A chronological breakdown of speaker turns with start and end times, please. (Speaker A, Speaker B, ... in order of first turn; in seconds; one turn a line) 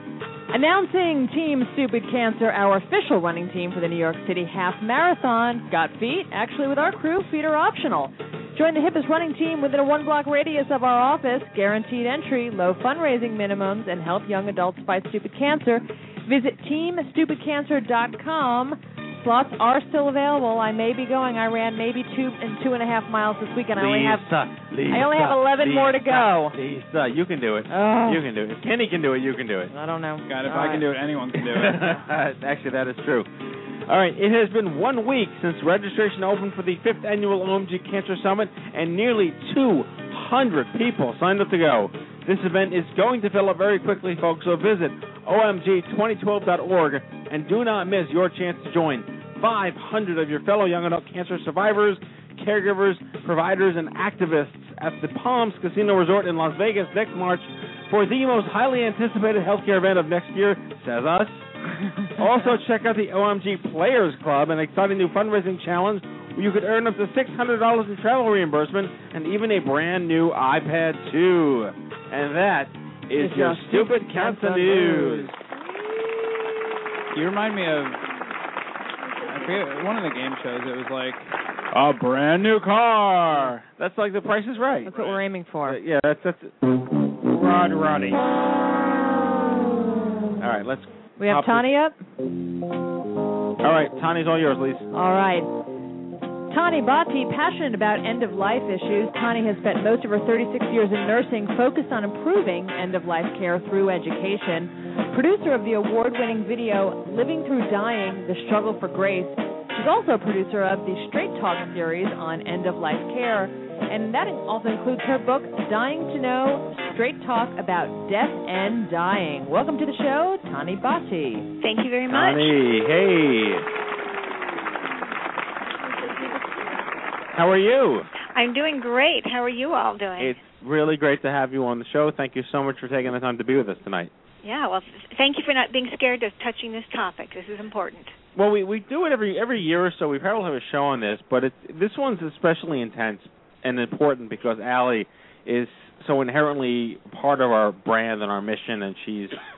Speaker A: 0.5-24.3
Speaker B: 23.7-29.7
Speaker A: 24.9-26.6
Speaker A: 27.7-28.2
Speaker A: 29.7-30.9
Speaker C: 30.3-31.8
Speaker B: 31.4-33.3
Speaker B: 33.9-61.5
Speaker B: 62.2-75.3
Speaker A: 73.2-75.3
Speaker C: 77.1-78.0
Speaker C: 79.3-83.6
Speaker B: 83.7-86.5
Speaker A: 84.8-85.8
Speaker B: 87.4-87.8
Speaker B: 90.4-91.7
Speaker A: 91.2-92.0
Speaker B: 93.6-94.9
Speaker A: 94.9-95.5
Speaker A: 96.5-121.5
Speaker D: 121.6-122.5
Speaker B: 122.1-123.7
Speaker B: 127.3-128.1
Speaker D: 128.3-130.4
Speaker B: 130.2-134.1
Speaker D: 134.4-138.1
Speaker B: 138.3-149.3